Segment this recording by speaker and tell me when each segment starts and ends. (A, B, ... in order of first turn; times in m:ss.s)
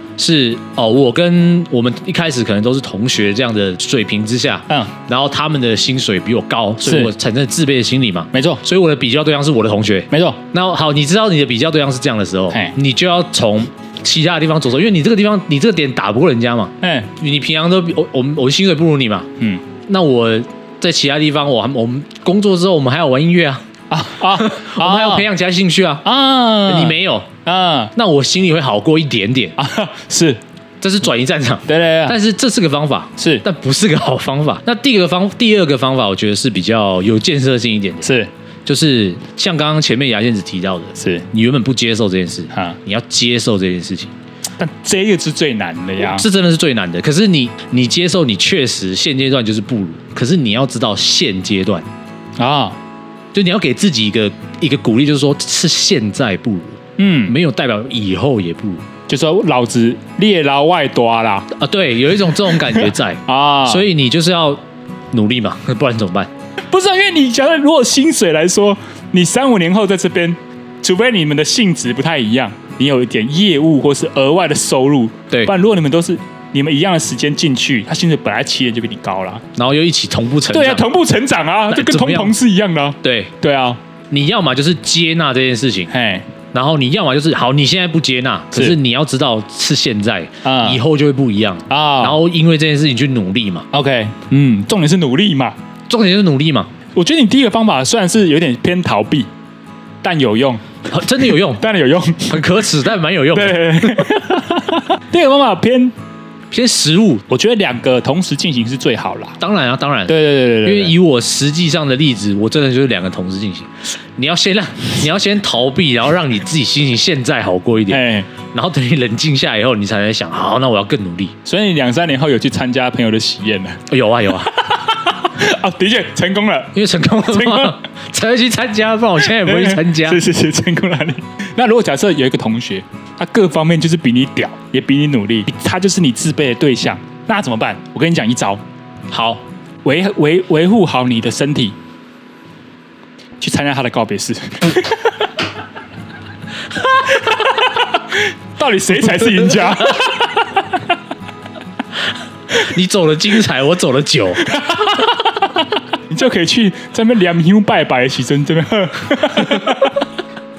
0:00.2-0:19.3 A
0:06.8-0:07.1 B
0:08.3-0:08.6 B
0:10.1-0:10.4 B
0:16.8-0:17.1 B
0:19.8-0:23.6 A
0:23.9-0:25.3 B
0:24.3-0:26.1 A
0:26.0-0:27.9 B
0:26.6-0:27.3 A
0:27.9-0:29.6 A
0:29.6-0:30.4 B
0:30.8-0:38.1 A
0:31.7-0:32.2 B
0:33.2-0:33.4 B
0:38.0-0:38.3 B
0:38.6-0:44.1 A
0:41.0-0:41.2 B
0:44.6-0:46.3 B
0:46.0-0:51.9 A
0:52.4-0:52.8 B
0:53.3-0:58.8 A
0:57.0-0:57.4 B
0:59.1-1:01.5 B
1:01.5-1:06.3 A
1:02.6-1:03.9 B
1:06.7-1:19.4 B
1:19.5-1:20.9 A
1:20.5-1:23.8 B
1:21.7-1:22.4 A
1:23.0-1:23.3 A
1:24.1-1:25.9 A
1:25.9-1:26.3 B
1:26.5-1:33.7 A
1:30.4-1:30.8 B
1:31.7-1:32.2 B
1:33.7-1:35.6 B
1:35.9-1:36.7 A
1:37.0-1:39.3 B
1:40.0-1:40.8 B
1:40.9-1:41.6 A
1:41.3-1:42.5 B
1:42.2-1:44.2 A
1:43.3-1:45.9 B
1:46.5-1:47.2 A
1:47.3-1:49.4 B
1:49.4-2:01.3 A
1:50.1-1:51.0 B
1:57.9-1:58.3 B
2:01.4-2:03.8 B
2:03.9-2:04.5 A
2:05.2-2:06.7 B
2:06.7-2:10.2 A
2:07.3-2:07.8 B
2:09.4-2:18.6 B
2:19.1-2:19.4 A
2:19.8-2:21.8 B
2:23.4-2:25.1 B
2:27.1-2:27.6 B
2:28.1-2:30.6 B
2:32.5-2:34.6 A
2:34.7-2:35.1 B
2:36.1-2:40.0 B